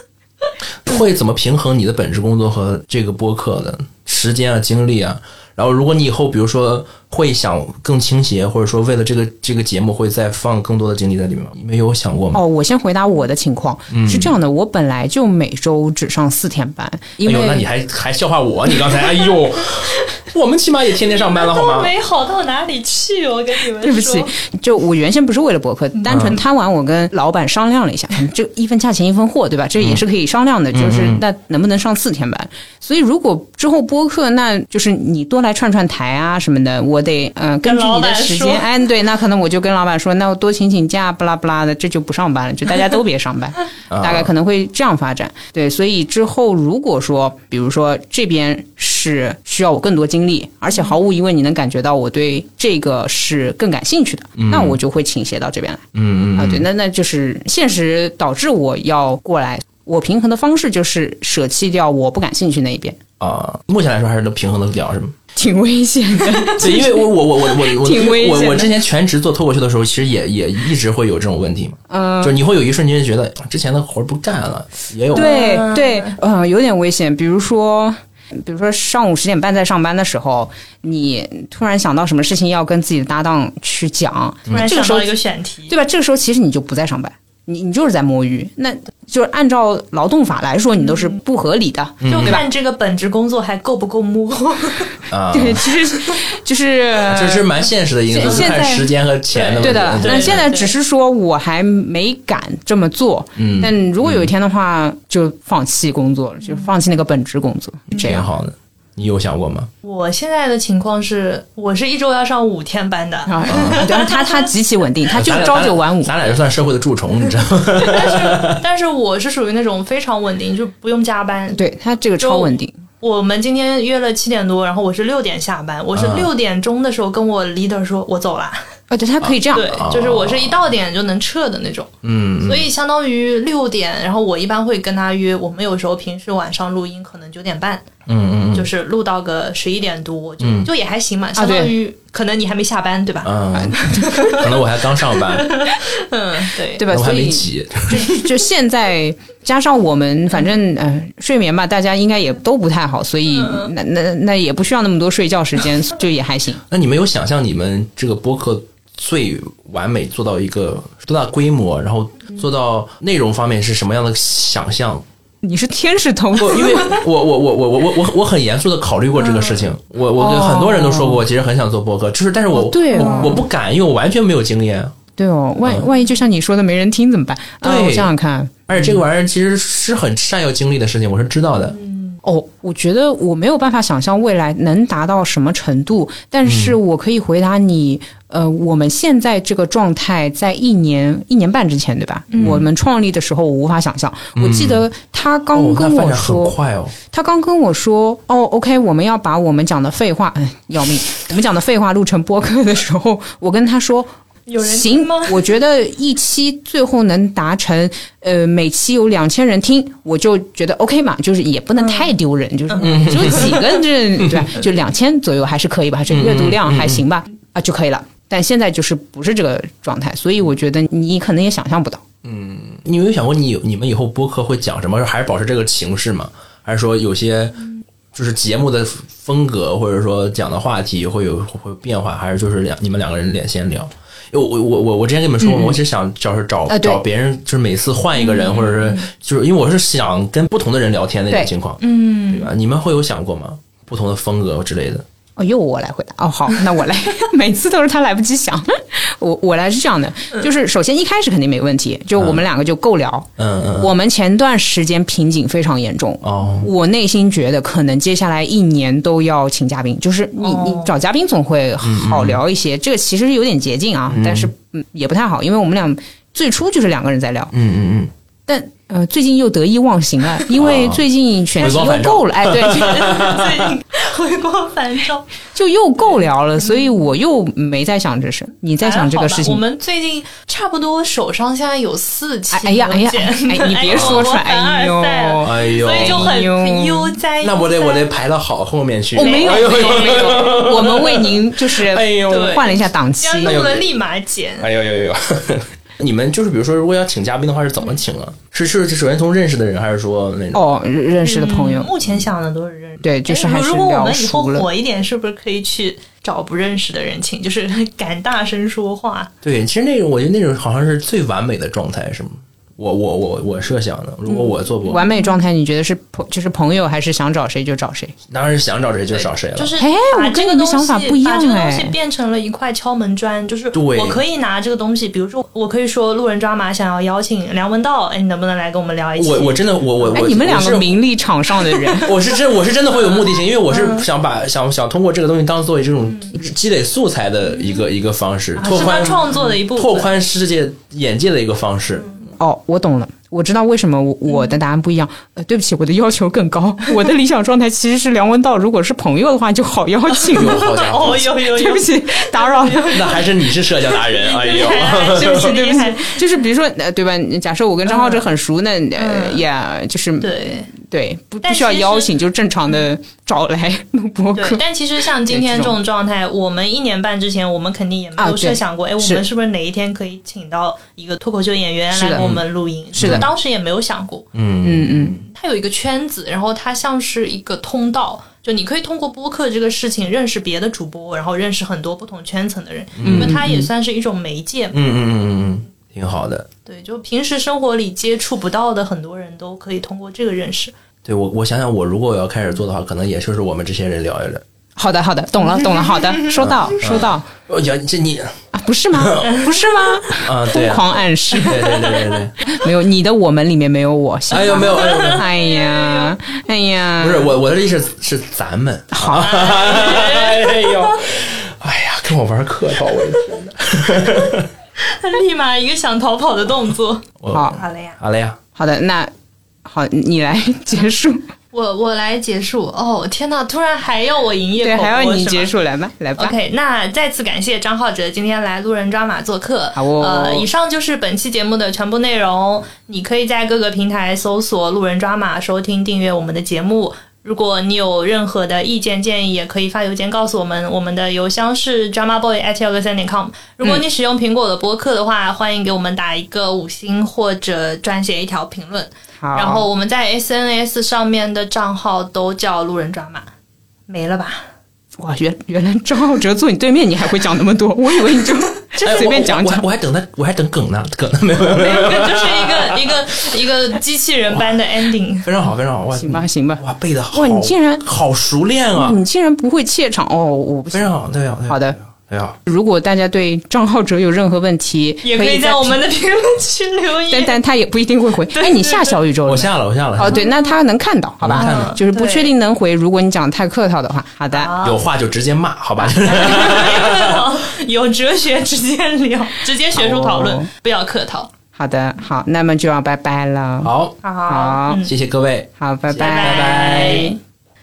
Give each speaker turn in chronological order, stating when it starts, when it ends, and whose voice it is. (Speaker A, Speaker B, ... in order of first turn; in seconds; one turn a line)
Speaker A: 0.8-12.4
Speaker B: 12.3-17.7
Speaker A: 13.9-14.3
Speaker A: 17.2-21.9
Speaker C: 19.9-20.2
Speaker C: 21.1-24.3
Speaker B: 23.8-55.8
Speaker A: 26.1-26.4
Speaker A: 29.8-30.0
Speaker A: 30.7-31.2
Speaker C: 37.6-38.7
Speaker A: 43.9-44.3
Speaker A: 54.4-54.8
Speaker A: 55.9-56.7
Speaker B: 56.4-63.0
Speaker A: 63.2-65.2
Speaker B: 65.4-68.7
Speaker A: 66.6-75.4
Speaker B: 71.9-72.4
Speaker C: 75.1-76.2
Speaker B: 75.1-85.1
Speaker C: 84.5-85.8
Speaker B: 85.7-92.5
Speaker C: 90.8-91.1
Speaker A: 92.0-92.4
Speaker C: 92.0-94.9
Speaker A: 95.1-95.8
Speaker B: 95.3-97.5
Speaker A: 97.0-100.5
Speaker B: 98.1-98.8
Speaker C: 98.2-100.7
Speaker B: 99.6-108.3
Speaker A: 103.4-104.3
Speaker C: 106.4-106.7
Speaker A: 107.9-109.7
Speaker C: 109.8-114.5
Speaker B: 113.3-116.1
Speaker A: 113.5-113.9
Speaker A: 115.1-118.6
Speaker C: 117.8-121.6
Speaker B: 121.5-122.8
Speaker C: 122.2-128.7
Speaker A: 125.9-126.3
Speaker B: 128.9-129.7
Speaker A: 129.2-130.6
Speaker C: 129.5-131.9
Speaker A: 132.0-132.7
Speaker C: 132.4-137.9
Speaker A: 138.1-138.7
Speaker C: 138.5-146.9
Speaker A: 140.4-140.7
Speaker B: 141.4-141.7
Speaker A: 143.2-145.7
Speaker B: 146.8-156.6
Speaker A: 146.9-148.2
Speaker C: 153.3-153.7
Speaker A: 156.7-165.1
Speaker B: 165.4-167.0
Speaker A: 166.4-174.9
Speaker C: 169.2-169.7
Speaker B: 170.2-171.2
Speaker B: 172.5-173.4
Speaker C: 173.0-173.4
Speaker B: 175.2-179.0
Speaker A: 177.6-178.1
Speaker A: 178.7-181.8
Speaker C: 181.7-182.2
Speaker B: 182.2-196.6
Speaker A: 186.4-186.8
Speaker C: 192.3-192.7
Speaker A: 194.4-194.9
Speaker A: 195.5-196.9
Speaker B: 197.1-204.1
Speaker C: 204.5-205.4
Speaker B: 204.6-222.0
Speaker C: 211.8-212.1
Speaker C: 212.7-213.8
Speaker A: 212.8-213.6
Speaker A: 214.2-214.5
Speaker A: 216.1-217.1
Speaker A: 222.2-245.1
Speaker B: 235.4-235.8
Speaker B: 236.7-237.0
Speaker C: 238.2-239.1
Speaker C: 241.8-242.5
Speaker B: 245.4-253.3
Speaker A: 252.2-252.4
Speaker A: 253.4-253.9
Speaker B: 253.8-267.5
Speaker A: 256.2-256.7
Speaker C: 260.4-261.0
Speaker A: 261.8-262.4
Speaker A: 264.1-264.5
Speaker A: 267.5-268.1
Speaker B: 268.5-273.1
Speaker A: 270.5-273.8
Speaker C: 272.7-275.3
Speaker B: 275.6-279.6
Speaker C: 276.0-277.0
Speaker C: 278.8-288.1
Speaker B: 282.5-287.1
Speaker A: 283.9-284.2
Speaker A: 285.4-286.3
Speaker A: 287.4-292.6
Speaker C: 289.2-291.1
Speaker B: 289.2-293.6
Speaker C: 292.3-294.7
Speaker A: 293.4-293.9
Speaker A: 294.6-300.6
Speaker B: 300.5-301.9
Speaker C: 301.2-309.3
Speaker B: 303.0-304.7
Speaker A: 309.4-315.1
Speaker B: 314.3-318.1
Speaker C: 314.9-315.3
Speaker A: 318.3-319.8
Speaker C: 319.2-329.6
Speaker B: 319.8-321.9
Speaker A: 323.7-324.2
Speaker A: 329.2-330.9
Speaker B: 330.1-332.1
Speaker A: 332.0-342.1
Speaker C: 333.1-334.1
Speaker C: 338.6-340.1
Speaker B: 342.4-350.8
Speaker C: 350.2-356.3
Speaker A: 350.3-351.3
Speaker B: 351.3-353.1
Speaker A: 352.9-355.6
Speaker B: 355.2-364.6
Speaker C: 357.9-358.3
Speaker C: 359.0-359.4
Speaker C: 360.2-360.7
Speaker C: 361.4-362.1
Speaker C: 364.4-374.3
Speaker B: 365.3-365.8
Speaker B: 368.2-369.2
Speaker B: 371.9-372.2
Speaker A: 372.1-372.4
Speaker A: 373.0-373.3
Speaker B: 373.0-373.3
Speaker A: 374.3-375.2
Speaker B: 374.6-375.2
Speaker C: 375.3-384.8
Speaker A: 383.0-383.7
Speaker B: 383.0-383.5
Speaker A: 384.7-386.5
Speaker C: 386.7-390.7
Speaker A: 391.1-394.4
Speaker B: 394.8-397.3
Speaker C: 395.5-396.8
Speaker A: 396.4-398.3
Speaker B: 398.5-401.7
Speaker A: 398.9-399.4
Speaker A: 400.2-402.4
Speaker C: 401.5-402.2
Speaker B: 402.4-407.3
Speaker A: 404.3-405.3
Speaker C: 404.4-406.2
Speaker A: 407.0-414.5
Speaker B: 408.9-409.4
Speaker C: 409.1-411.0
Speaker C: 414.8-418.0
Speaker A: 417.2-418.4
Speaker B: 417.3-417.6
Speaker B: 418.6-419.1
Speaker B: 419.6-421.3
Speaker C: 421.5-425.5
Speaker B: 424.6-426.4
Speaker C: 426.2-453.3
Speaker B: 429.8-430.5
Speaker B: 449.2-449.7
Speaker C: 453.9-454.5
Speaker B: 455.0-459.6
Speaker A: 458.8-463.4
Speaker C: 461.4-465.3
Speaker A: 464.3-464.7
Speaker A: 465.2-469.0
Speaker B: 465.9-467.8
Speaker B: 468.7-471.0
Speaker A: 470.7-472.4
Speaker B: 471.5-471.8
Speaker B: 472.5-475.8
Speaker C: 475.0-477.4
Speaker B: 477.1-484.5
Speaker C: 478.3-479.0
Speaker A: 479.2-480.3
Speaker C: 480.1-480.5
Speaker A: 481.2-481.8
Speaker C: 481.3-482.3
Speaker C: 484.3-484.8
Speaker A: 484.6-487.3
Speaker C: 486.0-491.3
Speaker B: 489.7-490.5
Speaker B: 491.6-493.7
Speaker A: 493.6-494.0
Speaker C: 494.0-494.9
Speaker B: 494.3-494.8
Speaker A: 494.8-496.3
Speaker B: 495.6-497.2
Speaker C: 496.0-497.2